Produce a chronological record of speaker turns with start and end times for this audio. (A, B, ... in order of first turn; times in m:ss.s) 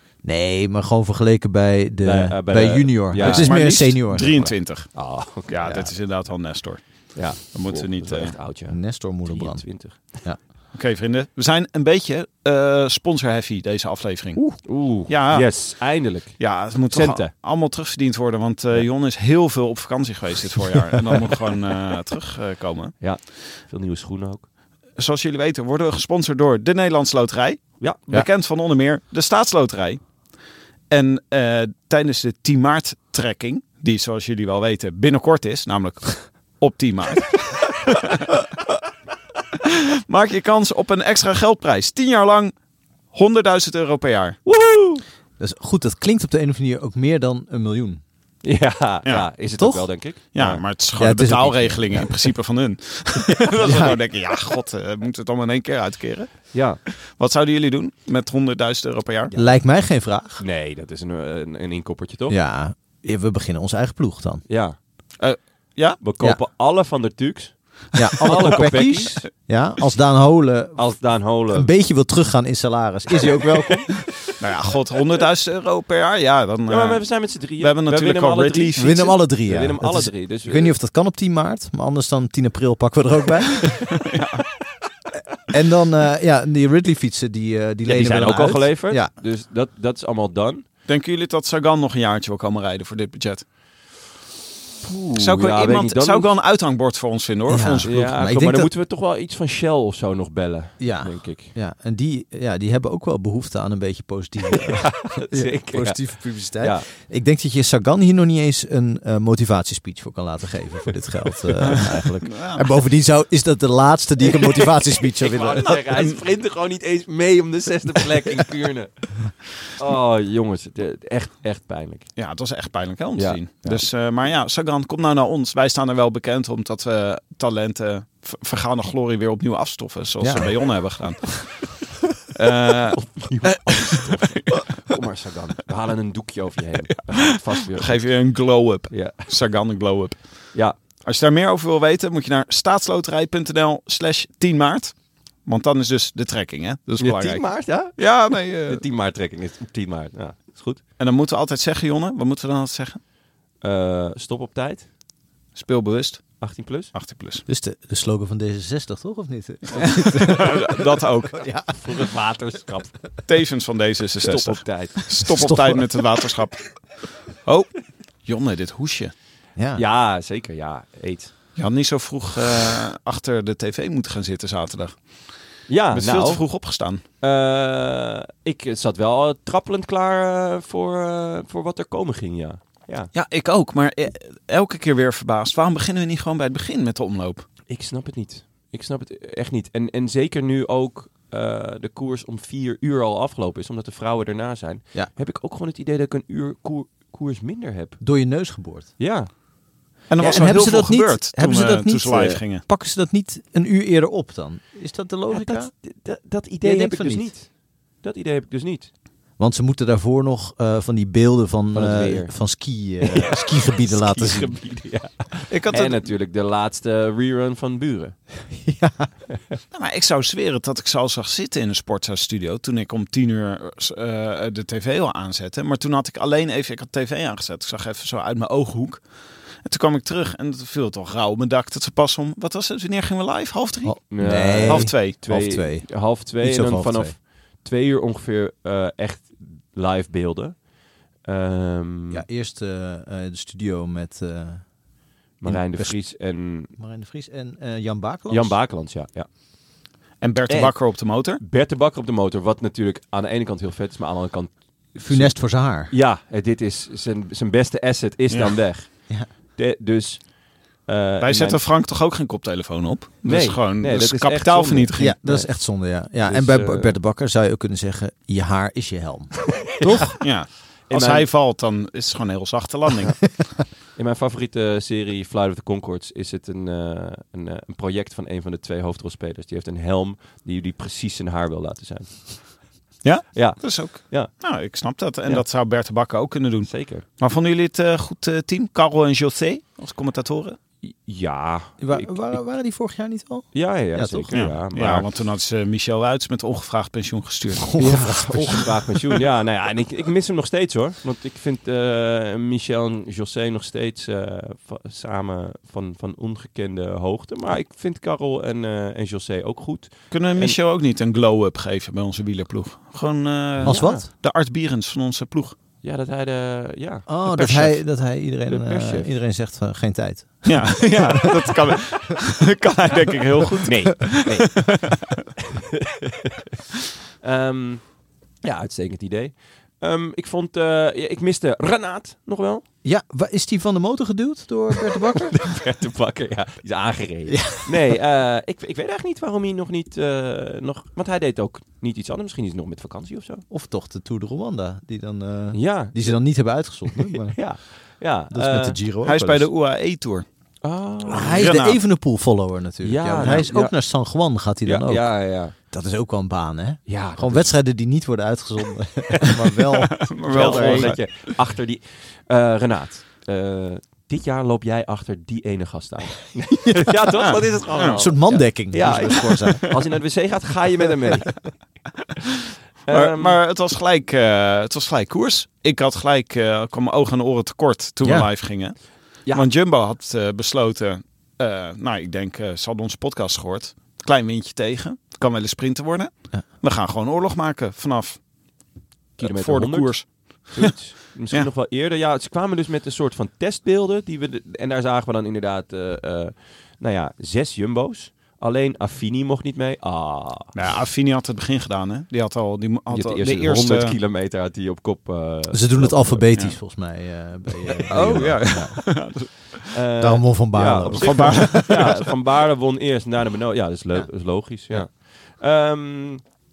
0:00.2-0:04.6 A
0:02.0-0:03.5 B
0:03.2-0:08.4 C
0:04.9-0:05.9 B
0:07.1-0:10.2 B
0:08.7-0:10.4 A
0:10.7-0:15.8 C
0:14.4-0:17.3 B
0:16.4-0:22.9 C
0:23.0-0:24.5 B
0:25.0-0:30.0 C
0:30.9-0:38.2 C
0:39.7-0:42.5 C
0:43.1-0:44.4 C
0:44.4-0:45.0 B
0:45.4-0:48.0 A
0:48.4-0:50.6 B
0:49.6-0:49.9 A
0:50.3-0:59.3 C
0:51.0-0:52.1 A
0:53.6-0:54.0 A
0:56.5-0:56.8 B
0:59.3-1:00.4 A
1:00.4-1:02.4 B
1:02.3-1:04.4 A
1:04.5-1:04.8 B
1:05.2-1:06.0 C
1:06.0-1:09.2 B
1:07.9-1:14.1 A
1:10.8-1:11.7 B
1:14.4-1:19.1 C
1:16.7-1:20.7 B
1:18.8-1:23.9 A
1:24.0-1:24.4 C
1:25.5-1:29.1 A
1:27.8-1:30.6 B
1:30.9-1:33.4 C
1:34.8-1:36.3 B
1:35.2-1:38.1 C
1:37.5-1:38.7 A
1:37.8-1:41.5 B
1:40.8-1:55.8 A
1:44.7-1:46.8 B
1:51.7-1:52.7 C
1:55.0-1:59.2 B
1:55.6-1:56.2 C
1:59.7-2:02.1 B
2:02.2-2:14.6 C
2:03.2-2:03.8 B
2:10.2-2:10.6 A
2:12.9-2:18.2 B
2:17.7-2:28.8 C
2:18.9-2:19.3 B
2:27.0-2:30.8 B
2:31.0-2:33.0 C
2:33.6-2:34.9 B
2:35.5-2:37.4 C
2:36.4-2:36.9 B
2:37.5-2:42.0 A
2:39.7-2:41.5 C
2:41.7-2:43.0 B
2:43.2-2:49.1 C
2:44.2-2:45.2 B
2:45.3-2:46.0 A
2:49.6-2:49.8 A
2:49.7-2:51.3 B
2:51.6-2:55.3 C
2:55.7-2:56.4 B
2:55.9-2:57.0 C
2:57.2-3:03.1 B
3:03.1-3:07.5 C
3:07.7-3:18.0 B
3:18.0-3:18.9 A
3:19.0-3:19.3 B
3:20.1-3:22.6 C
3:20.2-3:25.7 A
3:25.3-3:28.9 B
3:26.6-3:27.3 A
3:29.4-3:34.6 A
3:31.7-3:38.2 B
3:35.5-3:36.0 C
3:38.6-3:39.1 A
3:39.7-3:55.2 C
3:53.8-3:57.1 A
3:54.1-4:00.6 B
4:01.2-4:02.2 B
4:02.1-4:04.8 A
4:05.4-4:06.7 B
4:05.4-4:08.6 A
4:08.3-4:09.3 B
4:10.2-4:11.4 C
4:10.5-4:21.6 B
4:15.0-4:15.9 A
4:18.3-4:18.6 C
4:21.2-4:25.2 C
4:23.2-4:26.9 B
4:25.0-4:30.2 A
4:29.8-4:30.2 B
4:30.2-4:33.3 C
4:30.9-4:31.3 B
4:33.9-4:42.6 B
4:43.0-4:50.6 C
4:43.3-4:44.4 B
4:46.6-4:47.0 B
4:50.8-4:52.4 B
4:51.8-4:54.3 A
4:53.5-4:55.1 B
4:54.3-4:58.5 C
4:57.6-4:58.7 A
4:57.8-5:10.6 B
5:10.1-5:15.6 C
5:13.6-5:14.1 A
5:13.6-5:14.0 B
5:15.8-5:17.7 B
5:17.1-5:21.2 A
5:17.4-5:17.7 C
5:18.5-5:19.1 B
5:20.4-5:25.1 C
5:23.6-5:24.6 B
5:25.7-5:26.5 B
5:27.2-5:32.6 B
5:32.8-5:35.4 A
5:35.3-5:43.4 B
5:37.3-5:37.7 A
5:43.5-5:47.8 A
5:45.5-5:48.8 B
5:48.3-5:49.5 A
5:49.0-5:50.2 C
5:50.6-5:51.5 B
5:51.1-6:01.0 A
5:51.4-5:51.8 C
5:52.8-5:53.8 B
5:53.2-5:53.4 C
5:54.6-5:55.5 B
5:56.9-5:57.5 B
5:59.9-6:01.1 C
6:00.3-6:11.4 B
6:06.6-6:07.3 A
6:07.3-6:08.0 C
6:07.9-6:09.7 A
6:12.8-6:13.4 B
6:12.9-6:28.2 C
6:18.0-6:18.3 A
6:29.2-6:30.7 C
6:29.2-6:40.5 B
6:40.5-6:43.9 C
6:42.9-6:46.3 B
6:45.5-6:48.8 A
6:47.9-6:49.6 C
6:48.0-6:48.3 B
6:49.7-6:56.3 B
6:50.0-6:51.9 A
6:50.9-6:52.1 C